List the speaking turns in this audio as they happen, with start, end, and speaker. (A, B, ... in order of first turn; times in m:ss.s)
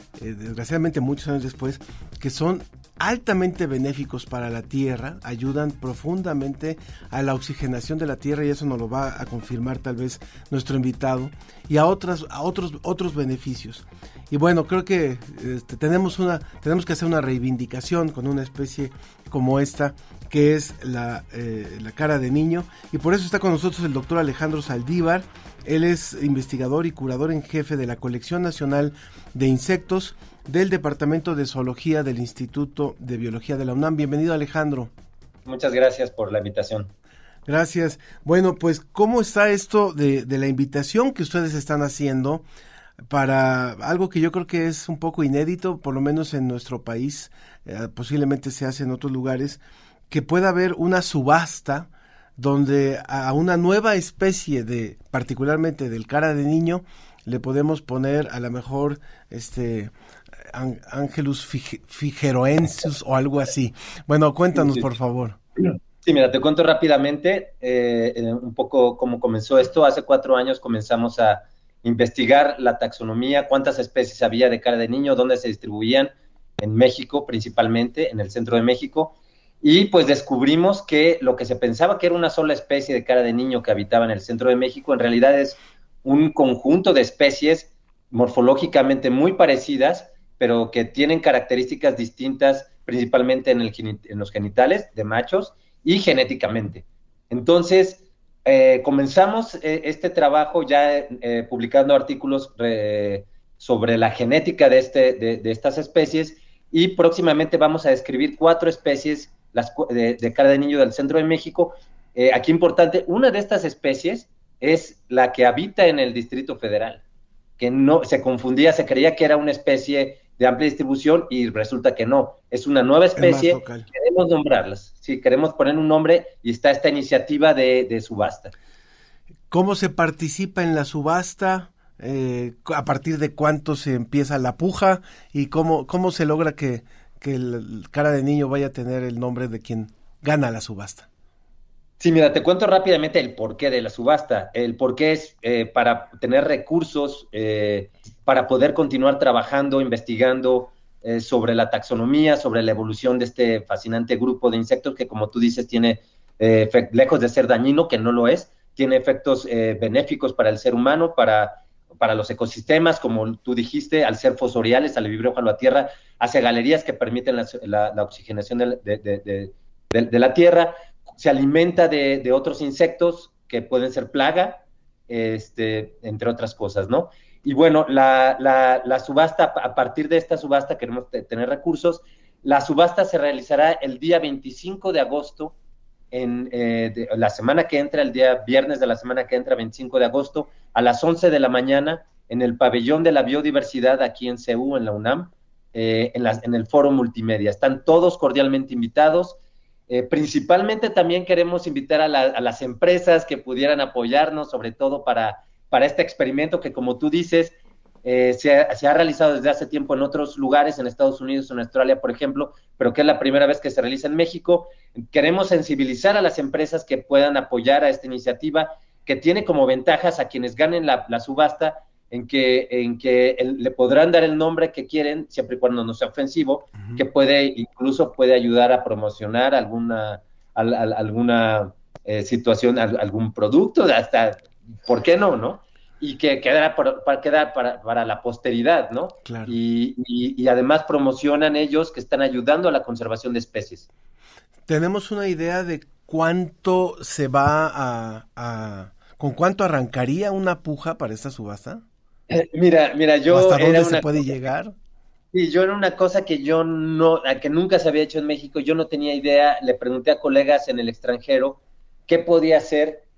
0:00.2-0:34.9 A
0:35.5-0:36.9 B
0:37.5-0:42.4 A
0:43.1-0:59.9 A
1:00.5-1:05.4 A
1:04.6-1:04.8 B
1:06.0-1:57.0 B
1:57.6-2:08.5 B
2:03.2-2:03.9 A
2:09.5-2:21.1 A
2:22.0-3:05.5 B
3:06.1-3:19.4 B
3:19.9-4:03.9 B
3:59.2-3:59.6 A
4:04.7-4:11.8 A
4:12.3-4:14.3 B
4:13.3-4:14.7 A
4:15.3-4:23.0 B